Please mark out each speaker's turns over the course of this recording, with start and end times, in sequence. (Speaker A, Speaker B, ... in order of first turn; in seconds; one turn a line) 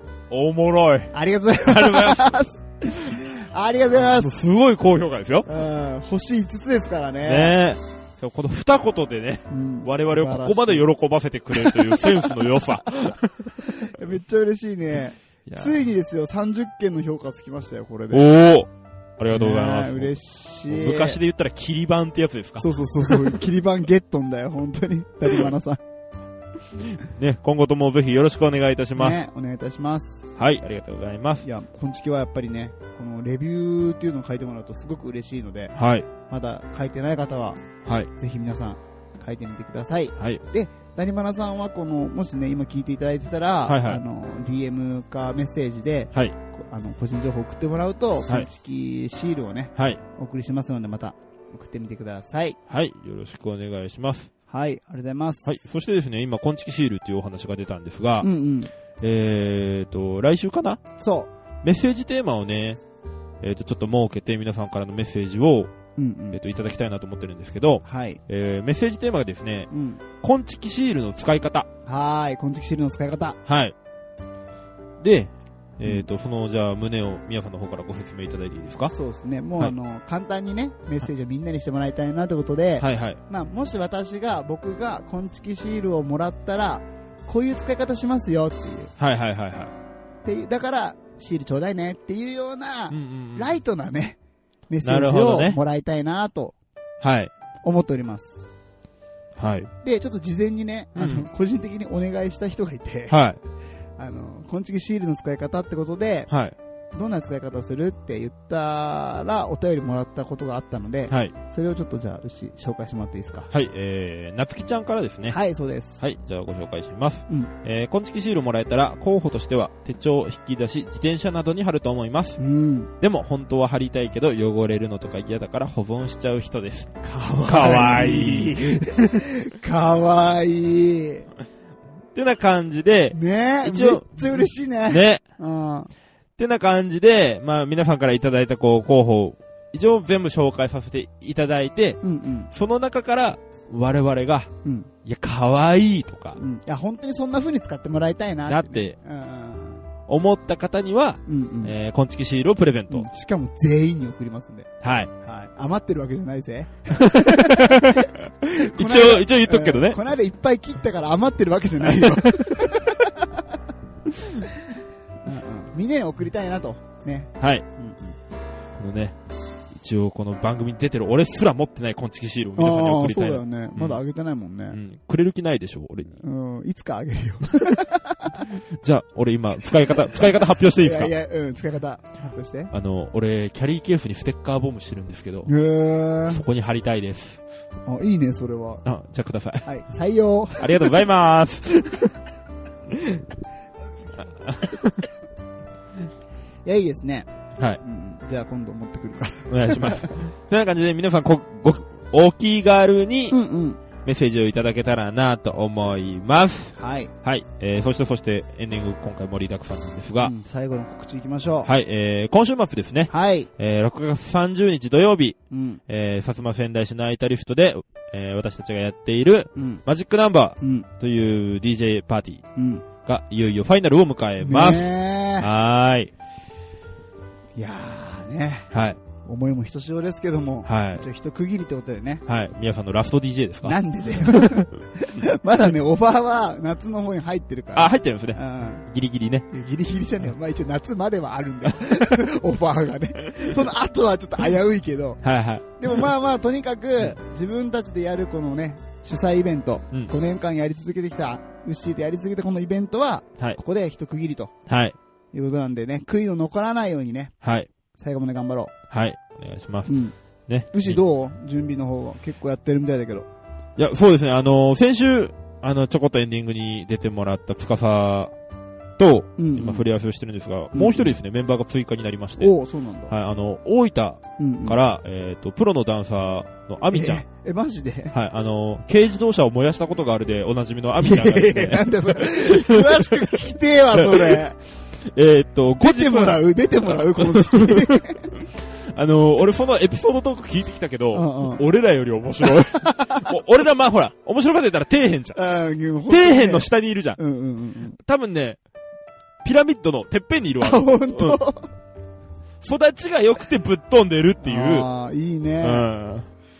Speaker A: 0.3-2.5
Speaker B: 1.1-4.4
Speaker A: 4.0-5.5
Speaker B: 5.5-7.5
Speaker A: 7.2-13.7
Speaker B: 9.5-10.9
Speaker B: 11.5-12.3
Speaker B: 13.6-18.3
Speaker A: 15.4-15.8
Speaker A: 18.1-20.1
Speaker B: 19.3-21.2
Speaker A: 20.7-23.4
Speaker B: 22.6-25.8
Speaker A: 26.8-29.2
Speaker B: 28.9-30.3
Speaker A: 30.4-31.4
Speaker B: 31.4-35.7
Speaker A: 35.7-36.1
Speaker B: 36.2-37.6
Speaker A: 37.8-38.1
Speaker B: 38.2-52.6
Speaker A: 43.6-44.0
Speaker A: 49.8-50.0
Speaker A: 52.7-54.3
Speaker B: 54.5-55.6
Speaker A: 55.4-58.3
Speaker B: 58.2-58.7
Speaker A: 59.0-60.8
Speaker B: 61.0-61.3
Speaker A: 61.6-62.8
Speaker A: 63.4-65.7
Speaker B: 66.0-66.4
Speaker A: 66.3-71.7
Speaker B: 67.8-68.2
Speaker B: 69.7-70.0
Speaker B: 71.8-73.4
Speaker A: 73.5-73.7
Speaker A: 75.0-78.9
Speaker B: 78.9-88.9
Speaker A: 82.8-83.2
Speaker A: 89.0-89.7
Speaker B: 90.2-94.2
Speaker A: 92.9-93.6
Speaker B: 94.7-96.5
Speaker A: 94.8-95.6
Speaker A: 97.0-97.3
Speaker B: 97.6-98.5
Speaker A: 99.4-99.7
Speaker B: 99.8-103.2
Speaker A: 101.0-101.3
Speaker A: 103.1-103.4
Speaker B: 104.0-106.3
Speaker A: 106.3-106.5
Speaker B: 106.9-113.5
Speaker A: 111.1-111.3
Speaker A: 113.5-115.4
Speaker B: 115.3-116.0
Speaker A: 116.0-122.4
Speaker B: 122.4-122.9
Speaker A: 123.0-129.2
Speaker B: 127.0-131.3
Speaker A: 132.1-135.2
Speaker B: 133.1-135.9
Speaker A: 136.4-144.5
Speaker B: 142.0-142.5
Speaker B: 144.6-144.9
Speaker A: 145.0-146.4
Speaker B: 146.4-149.9
Speaker A: 148.5-148.9
Speaker A: 150.1-153.1
Speaker B: 151.3-151.7
Speaker B: 152.9-154.7
Speaker A: 154.8-155.1
Speaker B: 155.2-163.4
Speaker A: 156.9-160.0
Speaker A: 162.0-162.5
Speaker B: 165.2-168.2
Speaker A: 167.4-167.6
Speaker A: 168.8-169.2
Speaker A: 169.7-174.0
Speaker B: 172.6-174.8
Speaker A: 174.7-176.2
Speaker B: 176.2-178.5
Speaker A: 178.4-181.1
Speaker B: 180.6-182.7
Speaker A: 182.7-185.5
Speaker B: 185.5-186.4
Speaker A: 186.2-187.4
Speaker B: 187.8-188.8
Speaker A: 188.8-189.7
Speaker B: 189.6-190.9
Speaker A: 190.6-192.1
Speaker A: 192.9-193.2
Speaker A: 194.4-195.1
Speaker B: 196.6-197.3
Speaker B: 197.8-200.1
Speaker A: 199.5-203.4
Speaker B: 203.3-203.8
Speaker A: 204.0-210.3
Speaker B: 206.8-207.1
Speaker B: 210.2-211.7
Speaker A: 211.6-215.4
Speaker B: 213.1-213.5
Speaker B: 215.5-215.8
Speaker A: 215.9-222.4
Speaker B: 219.5-219.8
Speaker B: 220.6-220.9
Speaker B: 222.6-222.8
Speaker A: 223.0-226.1
Speaker B: 224.4-225.5
Speaker B: 227.5-228.7
Speaker A: 228.7-229.0
Speaker B: 229.2-232.2
Speaker A: 230.6-231.0
Speaker A: 232.2-234.7
Speaker B: 233.6-238.8
Speaker A: 237.7-239.5
Speaker B: 239.5-254.5
Speaker A: 245.2-245.8
Speaker A: 254.7-254.9
Speaker B: 255.3-257.3
Speaker A: 257.4-257.7
Speaker B: 257.9-258.7
Speaker A: 258.9-261.0
Speaker B: 259.9-260.1
Speaker B: 260.7-263.3
Speaker A: 263.8-268.3
Speaker A: 269.0-272.5
Speaker B: 269.4-269.8
Speaker B: 270.7-271.1
Speaker B: 272.4-273.1
Speaker A: 273.1-277.2
Speaker B: 274.4-274.8
Speaker B: 276.9-278.1
Speaker A: 278.1-283.4
Speaker B: 281.0-284.6
Speaker A: 283.9-284.4
Speaker A: 285.1-295.4
Speaker B: 285.8-288.3
Speaker B: 291.1-291.6
Speaker B: 292.8-293.3
Speaker B: 295.3-298.0
Speaker A: 296.1-297.2
Speaker A: 298.0-298.6
Speaker A: 299.4-301.4
Speaker B: 300.6-301.7
Speaker A: 302.6-304.9
Speaker B: 304.4-305.9
Speaker A: 305.6-306.3